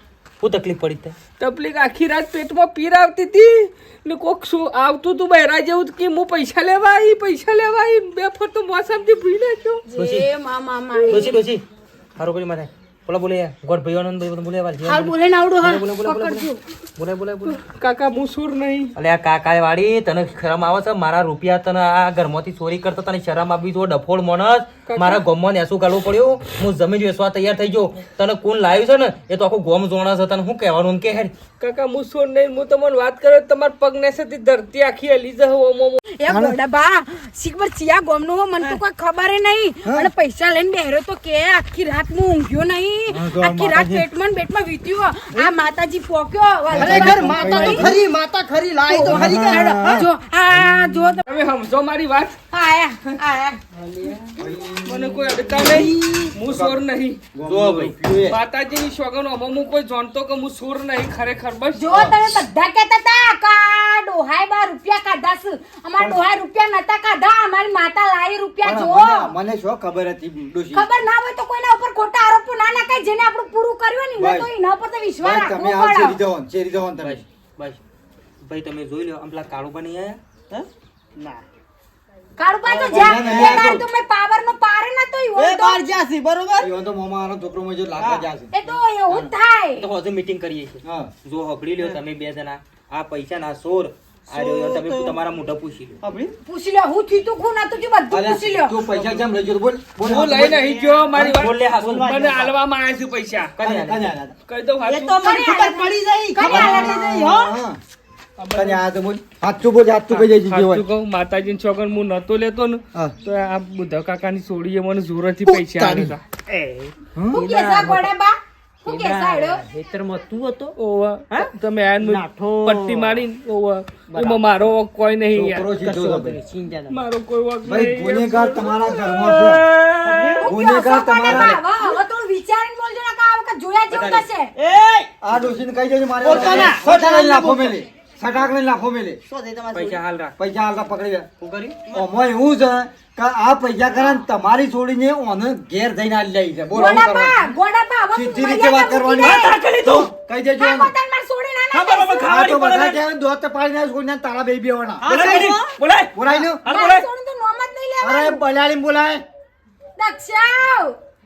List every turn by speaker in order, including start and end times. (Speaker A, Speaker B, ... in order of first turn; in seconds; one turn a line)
Speaker A: 0.4-1.2
Speaker B: 1.4-9.8
Speaker C: 9.9-11.4
Speaker A: 9.9-10.3
Speaker A: 11.1-11.6
Speaker A: 12.2-17.6
Speaker C: 14.8-16.6
Speaker B: 17.5-18.9
Speaker A: 18.9-31.3
Speaker B: 24.9-25.2
Speaker B: 31.6-36.0
Speaker C: 36.2-48.0
Speaker D: 36.3-36.6
Speaker D: 39.8-40.1
Speaker D: 43.1-44.0
Speaker D: 46.7-48.0
Speaker E: 46.7-50.0
Speaker C: 48.8-51.3
Speaker D: 49.0-50.1
Speaker D: 50.6-50.9
Speaker B: 51.2-52.4
Speaker C: 52.5-53.6
Speaker B: 53.8-54.2
Speaker D: 54.4-55.9
Speaker B: 54.8-57.2
Speaker E: 55.6-56.3
Speaker D: 56.4-56.8
Speaker D: 57.3-58.4
Speaker A: 57.5-57.9
Speaker B: 58.3-62.1
Speaker C: 61.7-69.3
Speaker D: 61.9-62.2
Speaker D: 68.6-70.9
Speaker C: 70.7-76.2
Speaker D: 74.2-74.5
Speaker D: 75.2-77.2
Speaker A: 77.0-77.8
Speaker A: 78.4-80.2
Speaker E: 80.5-81.4
Speaker C: 82.4-85.8
Speaker E: 82.7-83.6
Speaker D: 82.9-83.8
Speaker E: 85.3-86.7
Speaker D: 86.6-88.5
Speaker E: 88.0-88.3
Speaker C: 88.5-89.8
Speaker A: 89.1-96.0
Speaker D: 90.8-91.1
Speaker E: 94.3-95.2
Speaker E: 96.0-96.3
Speaker C: 96.5-98.8
Speaker D: 98.1-100.6
Speaker B: 100.0-103.5
Speaker E: 100.5-101.1
Speaker A: 101.1-102.1
Speaker E: 101.8-102.5
Speaker A: 103.5-104.2
Speaker D: 103.6-104.3
Speaker B: 104.5-105.5
Speaker E: 104.8-107.6
Speaker C: 105.2-107.1
Speaker D: 106.4-107.8
Speaker B: 108.4-108.8
Speaker D: 108.5-110.8
Speaker B: 110.1-116.2
Speaker E: 116.5-118.1
Speaker D: 117.1-117.4
Speaker C: 117.3-119.6
Speaker E: 118.8-120.7
Speaker B: 120.8-125.7
Speaker E: 121.3-123.2
Speaker E: 124.1-124.4
Speaker D: 125.3-126.4
Speaker E: 125.8-127.0
Speaker B: 126.9-128.9
Speaker D: 127.6-129.6
Speaker A: 128.9-130.5
Speaker E: 130.0-130.5
Speaker C: 130.4-134.5
Speaker D: 130.4-131.6
Speaker E: 131.3-131.6
Speaker A: 133.9-134.2
Speaker E: 134.6-135.2
Speaker D: 135.2-139.2
Speaker E: 136.2-137.8
Speaker A: 136.3-136.7
Speaker E: 139.3-140.0
Speaker A: 139.7-140.3
Speaker D: 140.4-141.3
Speaker A: 141.4-141.8
Speaker D: 141.9-147.5
Speaker C: 146.7-149.6
Speaker D: 148.1-150.9
Speaker A: 149.2-150.1
Speaker C: 150.6-152.4
Speaker A: 151.7-153.0
Speaker D: 152.2-155.1
Speaker E: 155.0-155.8
Speaker A: 155.1-157.1
Speaker D: 156.1-156.6
Speaker C: 156.7-158.4
Speaker D: 158.0-159.2
Speaker C: 160.0-160.9